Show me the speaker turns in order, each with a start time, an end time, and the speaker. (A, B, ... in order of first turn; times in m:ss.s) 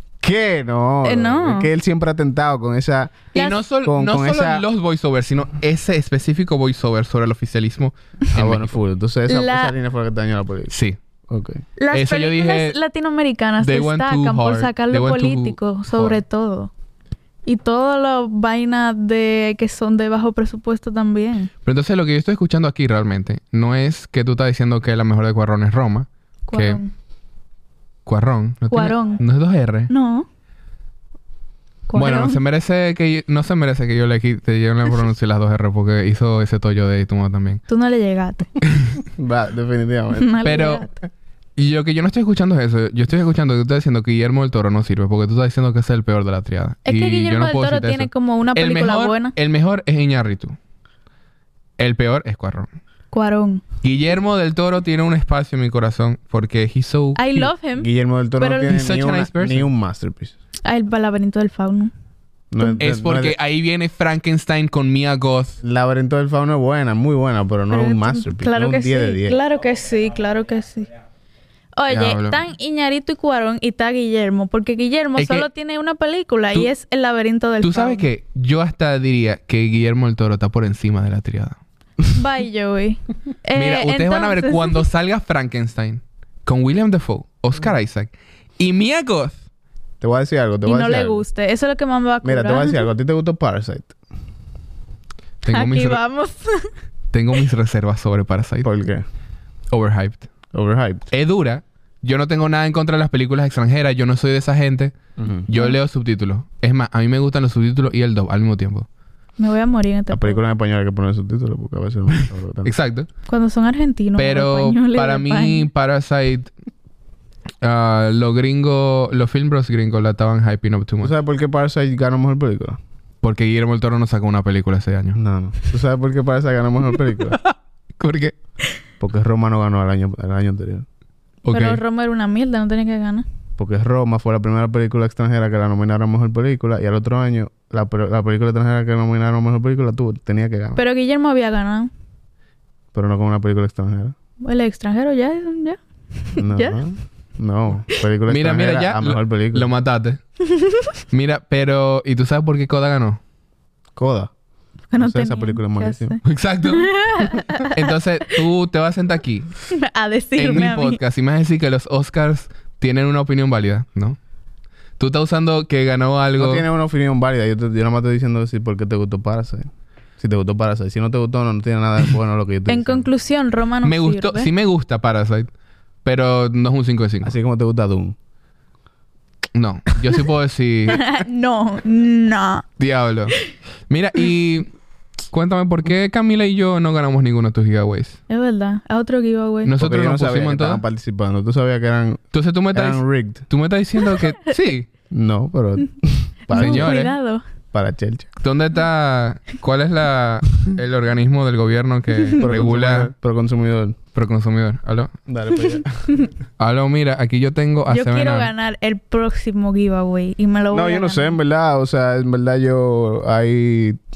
0:00.2-0:04.6 A
0:01.0-0:01.7 B
0:03.3-0:03.6 B
0:03.3-0:08.8 C
0:08.3-0:10.7 A
0:09.3-0:09.7 B
0:10.7-0:11.0 C
0:11.3-0:11.6 A
0:11.8-0:16.7 B
0:11.9-0:12.8 C
0:13.6-0:16.2 C
0:17.4-0:21.5 B
0:21.6-0:26.8 C
0:26.5-0:26.9 B
0:28.0-0:29.9 C
0:28.7-0:29.2 B
0:29.9-0:30.3 B
0:31.9-0:32.4 B
0:31.9-0:37.6 C
0:37.7-0:38.5 B
0:38.6-0:39.0 C
0:39.2-0:40.3 A
0:40.2-0:40.9 B
0:40.4-0:40.9 C
0:41.6-0:50.6 C
0:46.8-0:49.3 B
0:51.8-0:52.7 C
0:53.1-0:53.6 B
0:53.8-0:57.5 C
0:57.2-0:58.8 B
0:57.8-1:00.3 A
0:58.6-0:59.7 C
1:00.6-1:01.9 B
1:02.5-1:03.4 A
1:02.8-1:05.6 C
1:05.6-1:09.4 A
1:07.7-1:10.9 B
1:11.8-1:18.0 B
1:11.9-1:12.4 C
1:15.2-1:15.5 C
1:17.6-1:21.6 C
1:22.1-1:24.8 B
1:23.5-1:29.4 C
1:30.0-1:31.2 A
1:30.6-1:32.8 B
1:32.2-1:33.9 A
1:35.4-1:36.0 C
1:35.5-1:36.7 B
1:37.1-1:38.7 C
1:38.6-1:39.0 A
1:39.7-1:40.3 C
1:40.5-1:41.1 A
1:41.1-1:48.9 C
1:45.2-1:45.5 A
1:49.4-1:50.4 B
1:50.1-1:52.7 A
1:52.1-1:53.1 C
1:53.3-1:55.7 B
1:54.2-1:56.5 C
1:57.6-2:01.1 C
2:01.0-2:02.8 A
2:03.2-2:05.2 C
2:05.2-2:07.4 A
2:07.3-2:08.3 C
2:09.0-2:10.8 A
2:11.4-2:11.8 C
2:11.5-2:13.2 B
2:13.6-2:20.8 A
2:20.8-2:21.9 B
2:22.9-2:24.1 A
2:24.4-2:26.8 B
2:26.4-2:29.7 A
2:28.3-2:30.2 C
2:30.5-2:30.9 B
2:31.1-2:33.2 C
2:34.0-2:34.3 A
2:34.9-2:37.9 B
2:35.0-2:36.2 A
2:36.2-2:39.6 C
2:39.7-2:41.0 B
2:40.4-2:44.2 C
2:45.0-2:46.6 C
2:46.4-2:53.1 A
2:52.7-2:54.5 B
2:53.8-2:55.5 C
2:56.0-2:57.3 C
2:57.2-2:58.1 A
2:59.5-3:01.0 C
3:00.9-3:02.7 B
3:02.8-3:03.4 C
3:03.9-3:04.7 C
3:05.3-3:08.2 C
3:08.3-3:09.7 B
3:09.6-3:10.8 C
3:09.8-3:13.4 A
3:12.3-3:14.9 C
3:15.1-3:17.0 A
3:16.5-3:17.4 B
3:16.5-3:17.1 C
3:17.7-3:18.3 A
3:18.4-3:23.1 C
3:22.4-3:24.0 A
3:24.1-3:25.1 C
3:25.3-3:26.2 A
3:26.6-3:28.5 C
3:27.9-3:31.4 B
3:30.7-3:34.0 A